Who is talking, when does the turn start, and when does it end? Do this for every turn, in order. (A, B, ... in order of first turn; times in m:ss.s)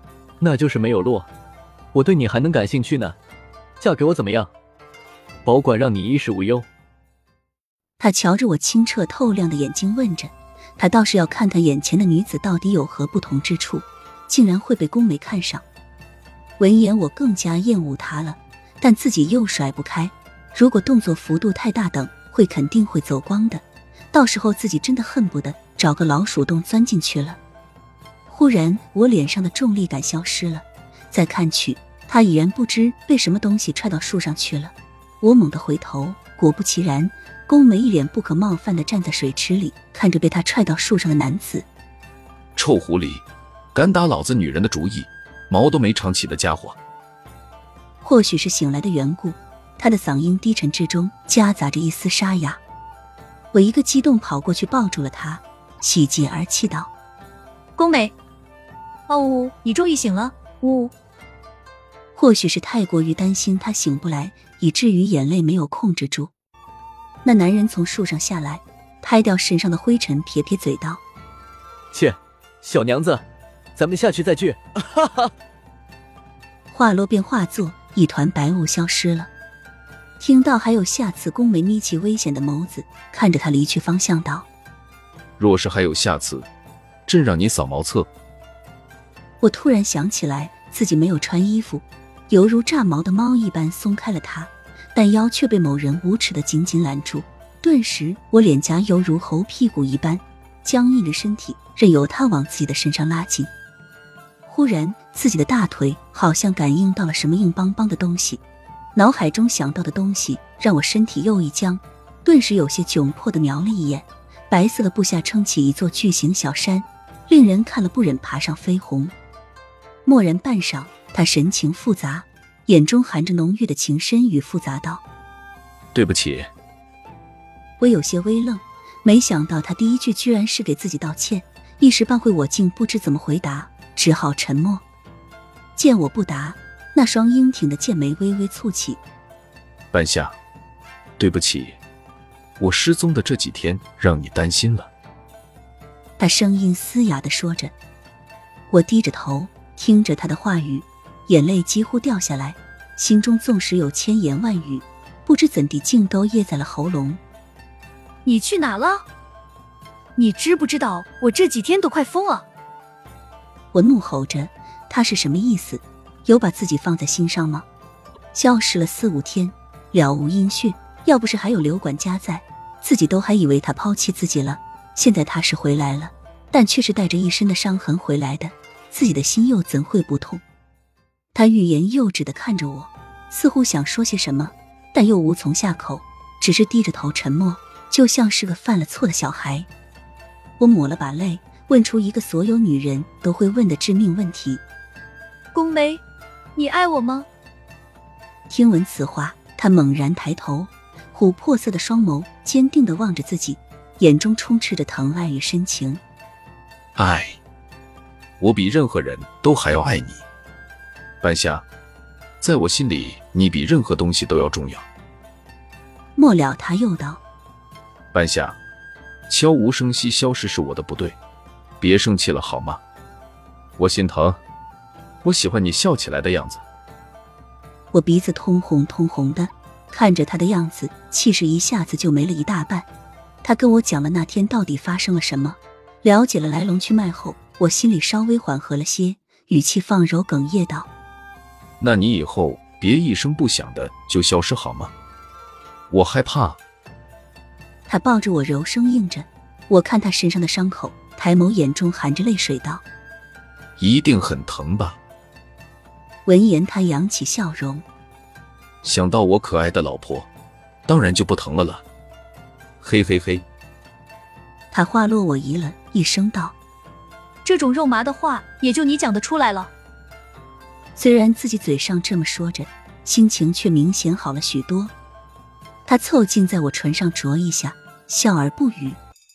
0:00.4-0:01.3 A
0:01.9-0:03.2 A
0:03.8-0:04.5 A
0:05.4-0:06.7 A
0:08.0-0:15.6 B
0:16.6-0:27.4 B
0:28.3-0:41.7 B
0:42.6-0:43.2 C
0:43.7-0:46.8 C
0:48.0-0:52.6 B
0:53.5-0:56.9 B
0:57.8-0:58.1 D
0:59.1-1:00.9 D
1:02.2-1:06.3 B
1:07.2-1:11.0 B
1:11.9-1:15.3 A
1:16.7-1:19.3 B
1:20.2-1:24.5 B
1:25.4-1:26.5 C
1:27.1-1:28.1 C
1:29.4-1:43.5 B
1:44.4-1:48.4 B
1:48.9-1:59.1 B
2:00.0-2:05.0 B
2:05.9-2:06.5 C
2:07.8-2:14.8 B
2:15.8-2:19.0 B
2:19.9-2:20.3 C
2:21.2-2:21.8 C
2:22.6-2:24.9 C
2:26.2-2:27.7 B
2:28.7-2:37.2 B
2:38.2-2:39.0 D
2:40.2-2:42.4 D
2:43.7-2:47.6 B
2:48.3-3:00.4 B
3:01.3-3:09.7 B
3:10.6-3:14.6 B
3:15.5-3:16.0 D
3:16.6-3:17.3 D
3:18.5-3:26.0 B
3:27.0-3:27.4 C
3:28.4-3:30.2 C
3:31.2-3:31.6 C
3:32.4-3:34.8 C
3:36.2-3:37.2 B
3:38.1-3:38.6 C
3:39.3-3:41.1 C
3:41.8-3:42.8 C
3:43.8-3:44.4 C
3:45.2-3:46.6 C
3:47.9-3:52.9 B
3:53.4-4:00.9 B
4:01.8-4:04.9 C
4:05.9-4:06.6 C
4:07.9-4:12.8 B
4:13.8-4:15.0 C
4:16.2-4:17.8 B
4:18.8-4:20.3 C
4:20.9-4:21.8 C
4:22.8-4:23.4 C
4:24.7-4:26.6 B
4:27.4-4:29.7 D
4:31.0-4:34.9 B
4:35.8-4:39.0 B